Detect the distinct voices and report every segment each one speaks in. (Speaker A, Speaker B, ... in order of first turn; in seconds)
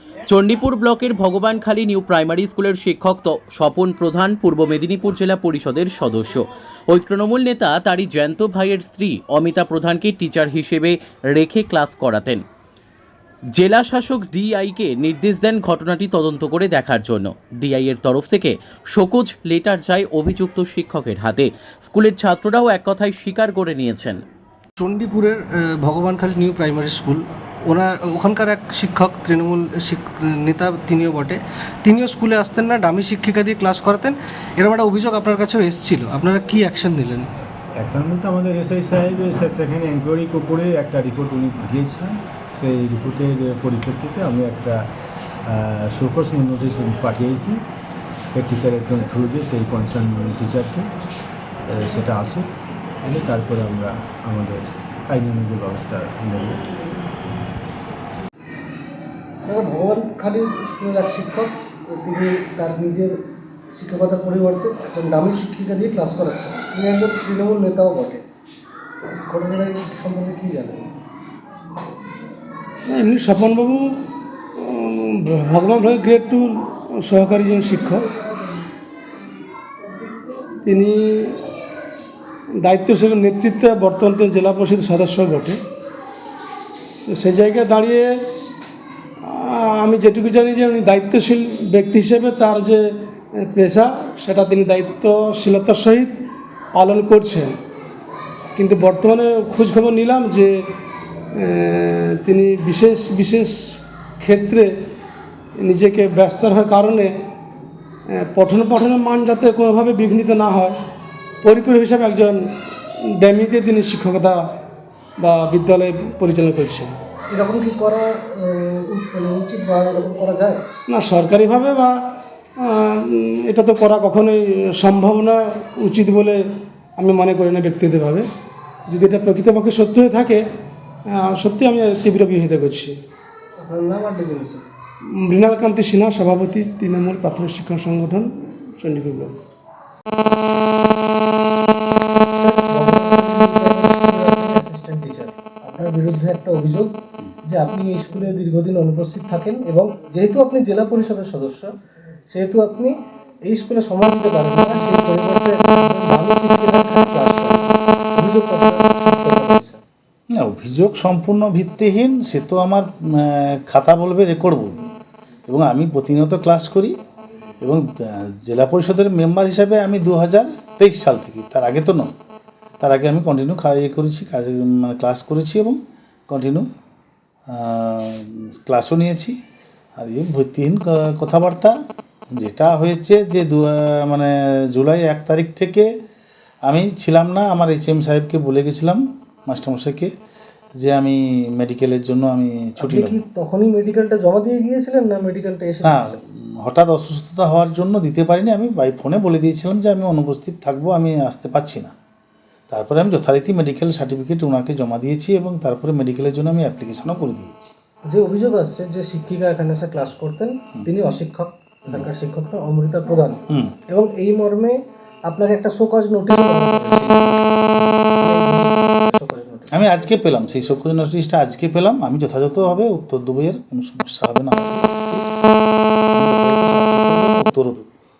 Speaker A: 0.3-12.4, 13.6-24.2
Speaker B: 24.8-37.3, 59.4-63.1, 63.7-68.2, 69.2-70.9, 117.3-120.6, 133.6-134.7, 142.4-151.7, 152.3-152.9, 153.4-159.8, 192.8-196.2, 208.1-217.4, 218.1-219.8
Speaker C: 37.8-44.9, 45.5-47.6, 48.3-50.9, 51.7-52.5, 53.0-56.6
Speaker D: 72.8-78.0, 80.6-81.4, 82.6-85.6, 87.1-88.2, 89.2-96.1, 96.7-97.6, 98.5-100.7, 101.3-104.7, 105.5-107.1, 108.1-110.8, 111.4-114.4, 115.2-116.9, 120.9-126.4, 127.0-128.3, 128.9-130.4, 131.1-133.0, 135.1-139.4
Speaker E: 160.3-164.8, 165.4-167.0, 167.6-172.1, 172.8-176.7, 177.5-179.3, 180.0-181.7, 182.3-185.9, 186.7-190.1, 190.8-193.2, 195.8-201.9, 202.7-207.7, 219.7-225.2, 226.1-227.9